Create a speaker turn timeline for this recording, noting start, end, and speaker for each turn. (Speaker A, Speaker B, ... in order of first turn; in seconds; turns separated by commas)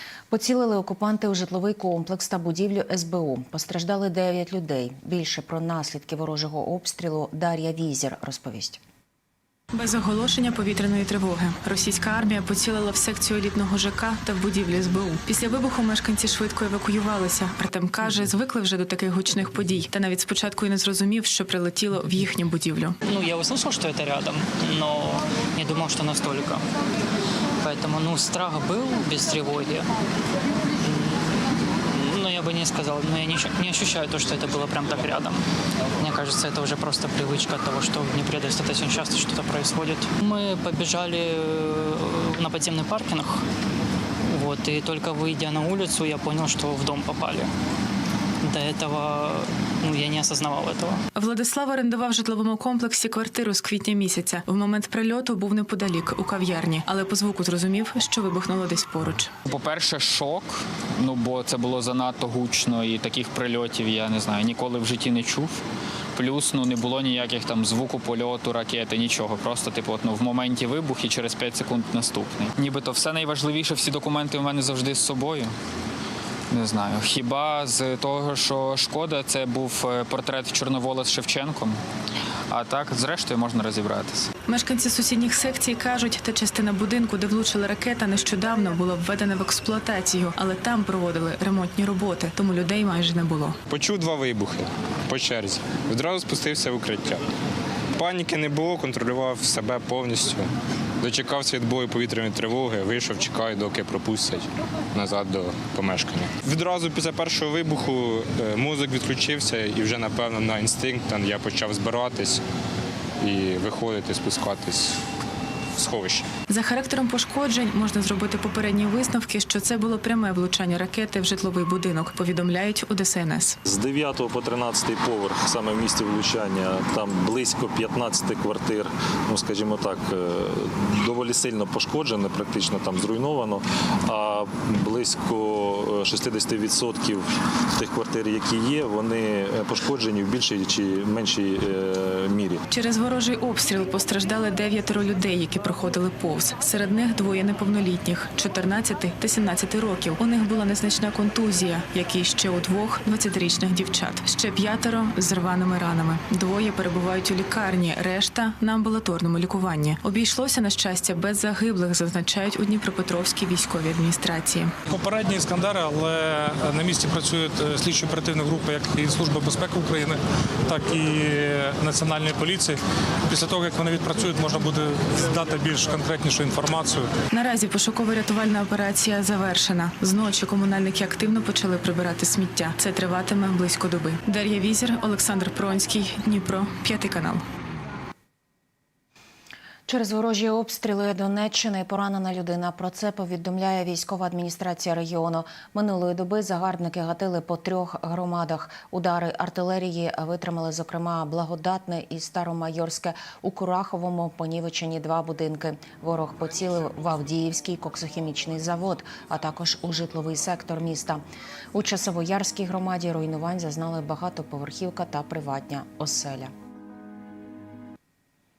Speaker A: 0.3-8.8, Speaker B: 9.7-23.0, Speaker C: 23.1-26.6, Speaker C: 27.6-29.9, Speaker C: 30.8-31.3, Speaker C: 31.9-35.4, Speaker C: 36.0-43.4, Speaker C: 44.3-47.5, Speaker C: 48.4-51.0, Speaker B: 51.1-59.3, Speaker D: 59.5-65.6, Speaker D: 66.1-75.5, Speaker D: 76.5-81.8, Speaker D: 82.5-84.3, Speaker B: 84.5-93.6, Speaker E: 93.7-97.2, Speaker E: 98.0-100.5, Speaker E: 101.0-112.4, Speaker E: 113.2-115.0, Speaker E: 115.8-116.2, Speaker B: 116.5-123.6, Speaker F: 123.7-142.6, Speaker B: 142.7-164.7, Speaker G: 164.9-177.1, Speaker B: 177.3-187.4, Speaker A: 189.9-216.5